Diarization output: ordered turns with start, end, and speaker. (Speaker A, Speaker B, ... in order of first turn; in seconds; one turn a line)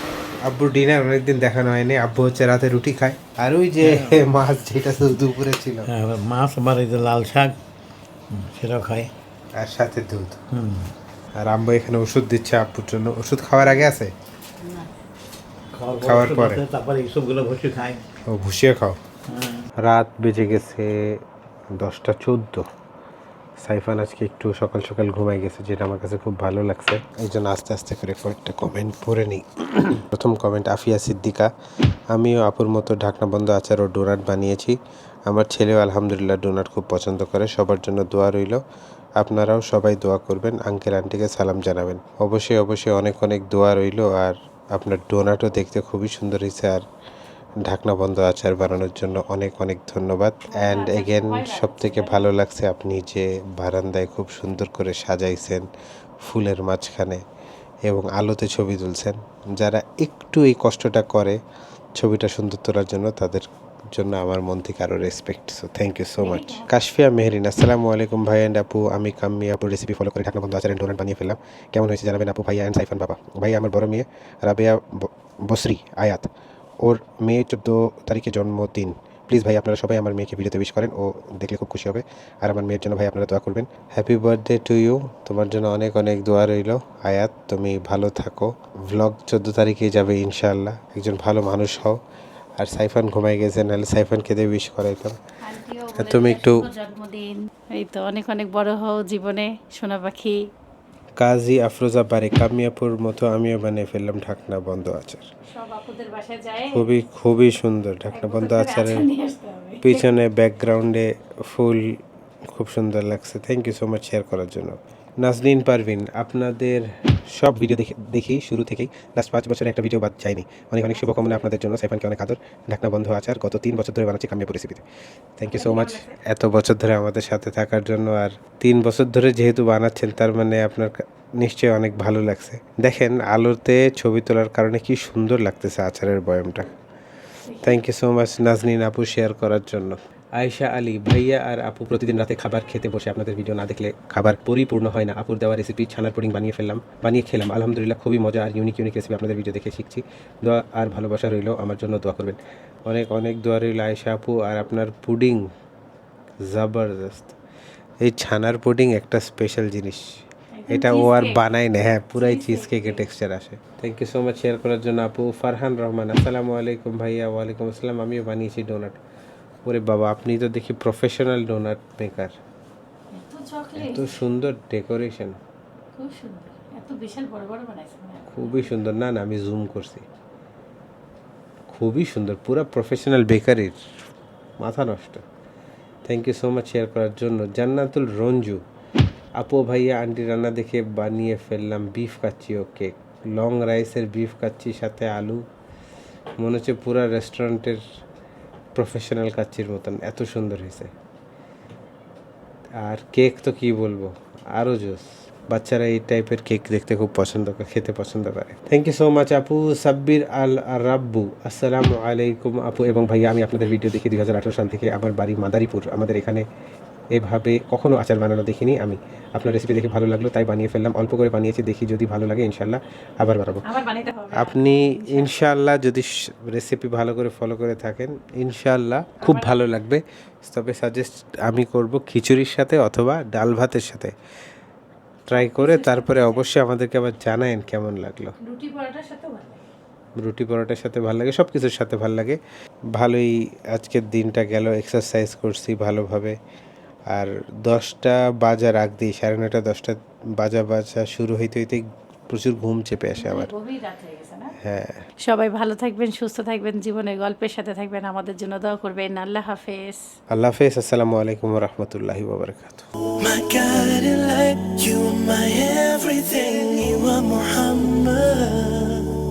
Speaker A: 0.4-5.9
Speaker B: 3.8-4.2
Speaker B: 5.8-7.5
Speaker B: 8.3-9.1
Speaker A: 9.6-10.4
Speaker B: 10.5-10.9
Speaker A: 11.4-14.1
Speaker B: 15.7-18.0
Speaker A: 16.0-16.6
Speaker A: 18.3-19.0
Speaker B: 19.3-19.6
Speaker A: 19.8-21.2
Speaker A: 21.8-22.6
Speaker A: 23.6-31.5
Speaker A: 32.1-34.8
Speaker A: 35.3-38.6
Speaker A: 39.2-46.8
Speaker A: 47.6-55.6
Speaker C: 50.5-52.3
Speaker A: 56.2-57.2
Speaker A: 57.9-61.4
Speaker A: 62.0-63.4
Speaker A: 64.0-76.3
Speaker C: 66.2-66.7
Speaker A: 76.8-92.0
Speaker A: 92.6-95.2
Speaker C: 95.4-100.4
Speaker A: 96.0-96.7
Speaker A: 101.2-105.2
Speaker C: 105.5-106.9
Speaker A: 106.7-109.1
Speaker C: 108.1-110.1
Speaker A: 109.8-124.8
Speaker A: 125.4-136.7
Speaker C: 125.5-126.1
Speaker C: 137.5-137.8
Speaker A: 137.6-155.4
Speaker A: 156.5-157.3
Speaker A: 158.0-160.0
Speaker C: 160.5-161.4
Speaker A: 160.7-169.0
Speaker C: 162.1-163.0
Speaker A: 169.6-172.3
Speaker C: 173.1-174.2
Speaker A: 173.8-175.4
Speaker C: 175.9-178.7
Speaker A: 178.3-180.0
Speaker A: 181.7-183.8
Speaker A: 184.6-185.2
Speaker A: 186.1-188.6
Speaker A: 189.4-195.4
Speaker A: 196.4-197.8
Speaker A: 198.8-200.9
Speaker A: 202.8-216.4
Speaker A: 217.2-223.6
Speaker C: 223.6-225.4
Speaker A: 224.3-234.1
Speaker C: 229.2-229.6
Speaker A: 235.3-238.3
Speaker C: 235.3-236.4
Speaker C: 238.4-239.6
Speaker A: 240.2-242.4
Speaker A: 242.9-246.4
Speaker A: 247.1-253.5
Speaker C: 253.2-254.5
Speaker A: 254.6-255.0
Speaker C: 255.2-260.0
Speaker A: 260.3-262.9
Speaker D: 263.2-269.1